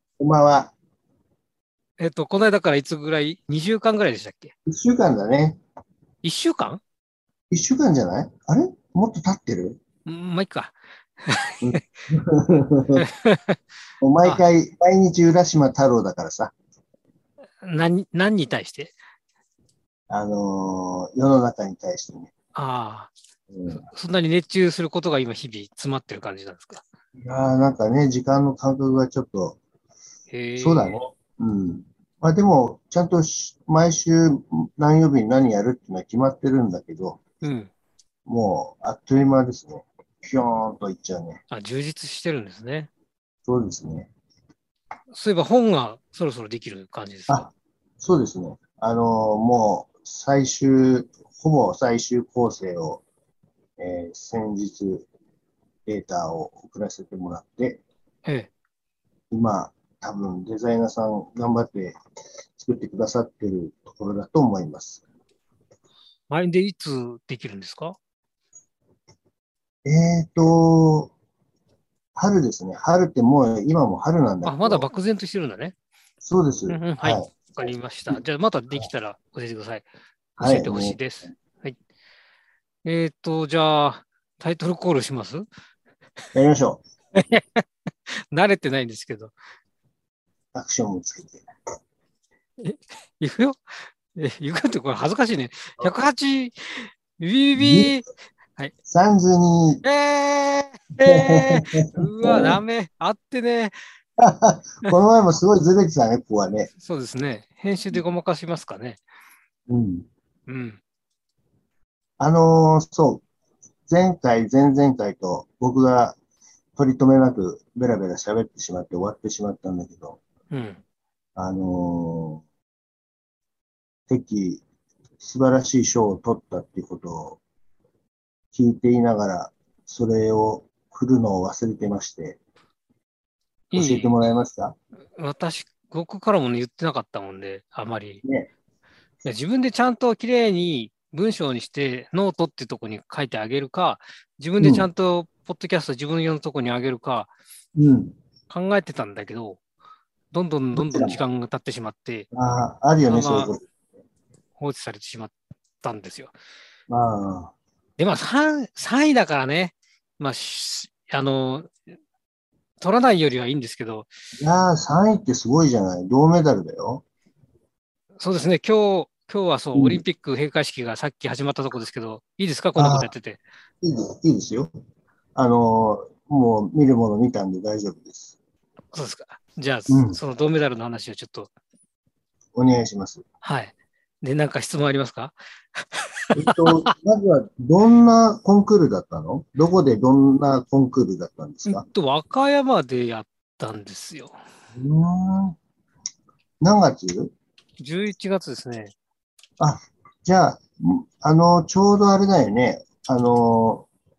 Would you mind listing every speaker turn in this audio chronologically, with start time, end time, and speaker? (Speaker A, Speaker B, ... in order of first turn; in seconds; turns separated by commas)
Speaker A: 0.2-0.7, Speaker B: 2.0-4.5, Speaker A: 4.7-5.6, Speaker B: 6.2-6.8, Speaker A: 7.5-9.8, Speaker B: 10.1-11.8, Speaker A: 11.6-13.1, Speaker B: 13.0-13.6, Speaker A: 14.0-16.5, Speaker B: 17.6-18.9, Speaker A: 20.1-22.3, Speaker B: 22.5-23.1, Speaker A: 23.5-23.8, Speaker B: 23.7-26.8, Speaker A: 27.2-29.6, Speaker B: 30.3-31.0, Speaker A: 30.6-37.2, Speaker B: 37.4-37.7, Speaker A: 38.2-41.4, Speaker B: 41.5-42.9, Speaker A: 43.5-44.1, Speaker B: 45.1-47.5, Speaker A: 47.3-53.0, Speaker A: 53.8-55.1, Speaker A: 55.9-57.8, Speaker A: 59.3-62.0, Speaker A: 62.6-65.0, Speaker B: 66.3-68.0, Speaker A: 69.8-71.1, Speaker A: 72.2-74.9, Speaker B: 74.4-75.7, Speaker A: 76.2-77.3, Speaker B: 76.7-79.9, Speaker A: 80.4-81.0, Speaker B: 80.4-81.8, Speaker B: 82.8-85.4, Speaker A: 86.3-86.8, Speaker B: 87.1-89.3, Speaker A: 90.5-91.4, Speaker B: 92.6-98.7, Speaker A: 97.6-98.0, Speaker A: 98.8-99.8, Speaker B: 99.8-103.7, Speaker A: 101.0-102.6, Speaker A: 104.2-106.7, Speaker B: 106.8-109.0, Speaker A: 109.7-110.1, Speaker B: 110.5-110.8, Speaker A: 112.2-113.2, Speaker A: 113.9-116.2, Speaker A: 116.8-120.2, Speaker B: 120.5-120.8, Speaker A: 121.3-122.4, Speaker A: 124.1-124.6, Speaker A: 125.2-127.4, Speaker A: 128.5-132.4, Speaker B: 133.7-134.2, Speaker A: 133.7-134.8, Speaker B: 135.2-138.2, Speaker A: 138.2-138.5, Speaker B: 139.2-147.3, Speaker A: 144.6-144.9, Speaker A: 147.8-148.1, Speaker B: 148.5-149.6, Speaker B: 150.3-152.3, Speaker A: 150.7-151.2, Speaker A: 152.3-153.6, Speaker B: 153.1-153.5, Speaker B: 154.6-156.3, Speaker A: 156.9-157.5, Speaker B: 158.0-161.7, Speaker B: 162.8-164.1, Speaker A: 164.4-167.0, Speaker B: 168.2-173.4, Speaker A: 169.7-170.0, Speaker A: 172.8-173.1, Speaker A: 173.8-174.7, Speaker A: 175.3-178.3, Speaker B: 178.9-181.5, Speaker A: 179.9-180.2, Speaker A: 182.6-183.2, Speaker B: 183.4-186.9, Speaker A: 186.3-191.8, Speaker B: 191.7-194.4, Speaker A: 194.8-195.6, Speaker A: 196.6-197.3, Speaker B: 197.8-198.9, Speaker A: 199.6-203.9